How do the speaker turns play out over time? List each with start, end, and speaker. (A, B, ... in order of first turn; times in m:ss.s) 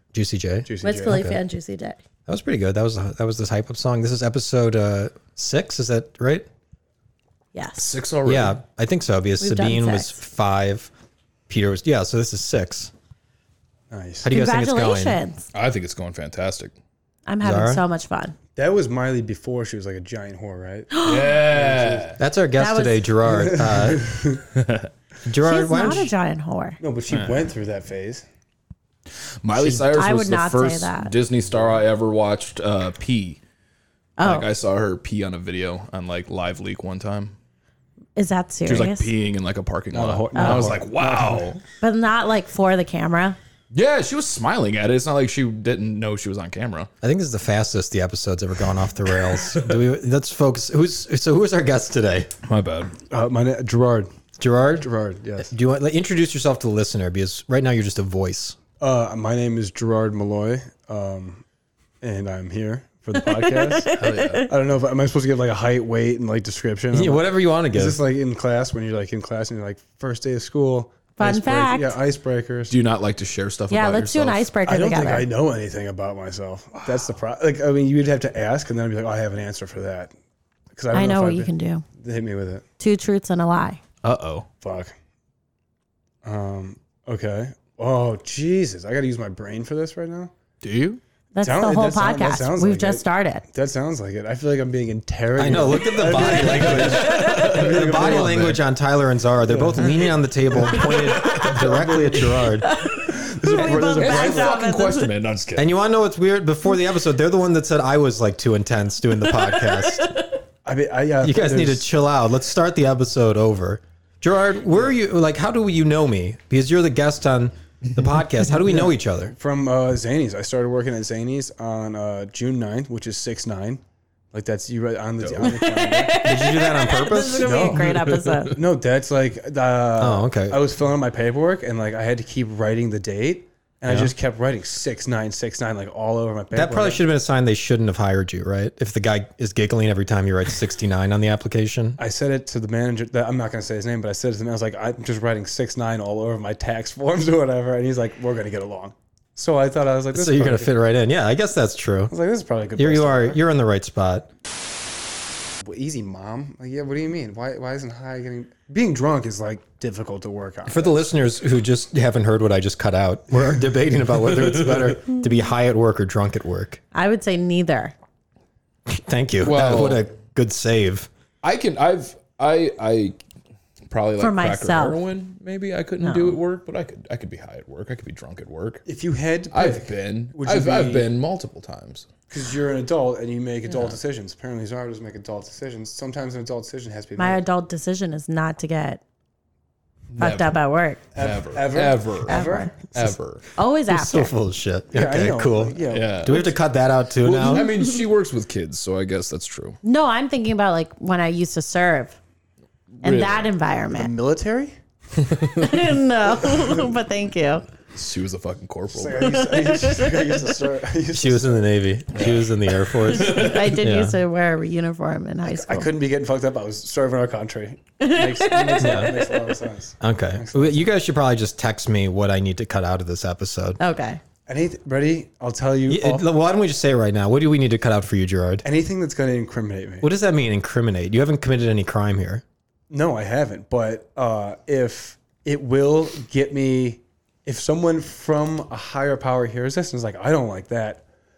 0:00.1-0:01.4 A
0:00.6-0:01.3 B
0:00.8-0:02.0 C
0:02.3-0:06.5 A
0:07.5-0:07.9 C
0:07.8-0:08.6 D
0:08.3-0:10.9 A
0:09.4-0:10.2 C
0:11.5-0:12.9 A
0:13.9-0:14.3 B
0:14.2-0:15.2 A
0:14.3-0:15.5 C
0:15.5-0:16.7 D
0:17.3-0:18.4 C
0:17.4-0:17.8 A
0:18.6-0:22.2 B
0:20.9-0:21.4 C
0:21.0-0:22.2 D
0:22.2-0:24.1 A
0:22.6-0:23.1 C
0:23.2-0:24.4 B
0:24.6-0:24.9 D
0:25.3-0:26.1 A
0:25.4-0:26.8 C
0:26.8-0:28.3 B
0:27.1-0:27.5 D
0:29.4-0:33.4 D
0:29.6-0:29.9 B
0:29.9-0:31.1 C
0:31.5-0:31.8 B
0:34.2-0:34.5 C
0:34.2-0:37.3 D
0:38.2-0:39.1 C
0:38.7-0:41.6 D
0:39.9-0:41.5 B
0:40.4-0:40.7 C
0:41.8-0:43.4 C
0:43.7-0:46.9 D
0:47.0-0:52.3 A
0:52.4-0:52.9 D
0:53.1-0:54.1 B
0:54.4-0:54.9 A
0:54.8-0:55.5 B
0:55.4-0:58.6 A
0:58.8-1:01.4 B
1:02.0-1:04.0 B
1:03.2-1:04.5 C
1:03.9-1:04.5 D
1:04.5-1:12.8 B
1:06.9-1:08.0 A
1:11.2-1:12.0 C
1:12.7-1:14.5 D
1:13.7-1:15.3 C
1:14.6-1:20.1 B
1:20.7-1:22.6 B
1:20.9-1:21.8 C
1:22.8-1:23.8 C
1:24.0-1:24.5 D
1:24.6-1:24.9 B
1:26.2-1:30.3 B
1:30.6-1:31.0 D
1:31.3-1:33.4 C
1:31.4-1:38.6 B
1:35.4-1:42.8 A
1:36.0-1:38.6 D
1:39.5-1:40.1 B
1:39.8-1:41.8 D
1:41.4-1:42.5 B
1:42.5-1:45.1 C
1:43.1-1:45.7 D
1:43.1-1:44.6 B
1:45.6-1:50.1 A
1:49.5-1:50.3 C
1:50.6-1:51.9 B
1:51.2-1:59.4 A
1:58.6-2:03.8 B
2:04.3-2:06.2 B
2:05.2-2:05.7 D
2:05.4-2:08.6 C
2:06.2-2:07.8 A
2:07.4-2:07.8 B
2:07.8-2:08.6 D
2:08.5-2:17.0 B
2:10.0-2:10.6 A
2:13.9-2:14.1 A
2:16.5-2:22.0 A
2:22.0-2:30.7 B
2:30.1-2:32.1 A
2:32.1-2:33.4 B
2:32.8-2:34.3 A
2:35.6-2:41.0 B
2:40.7-2:46.8 A
2:46.9-2:48.0 C
2:48.9-2:51.1 A
2:49.4-2:50.0 D
2:51.4-2:53.2 D
2:53.9-2:58.8 D
2:54.2-2:55.0 C
2:56.0-2:56.4 C
2:58.9-3:01.1 B
2:59.5-3:02.1 D
3:02.3-3:07.4 B
3:07.2-3:09.0 C
3:10.1-3:10.6 D
3:10.2-3:11.0 C
3:11.2-3:12.7 B
3:11.2-3:13.4 D
3:12.3-3:12.7 C
3:13.6-3:14.3 C
3:13.9-3:17.7 A
3:14.9-3:16.6 B
3:15.9-3:16.5 D
3:17.2-3:19.8 D
3:17.5-3:18.0 C
3:19.8-3:22.2 C
3:22.9-3:23.5 D
3:23.0-3:24.1 C
3:23.9-3:24.8 B
3:25.2-3:25.8 D
3:25.6-3:27.7 C
3:27.9-3:29.6 D
3:28.9-3:31.7 B
3:29.3-3:30.4 C
3:31.1-3:34.2 A
3:32.1-3:33.7 D
3:33.1-3:35.9 C
3:35.5-3:40.8 B
3:38.0-3:39.5 C
3:38.8-3:39.2 A
3:40.0-3:43.8 A
3:43.8-3:44.2 C
3:44.5-3:46.3 B
3:45.9-3:48.6 A
3:48.6-3:50.1 B
3:50.0-3:52.4 A
3:52.9-4:01.0 B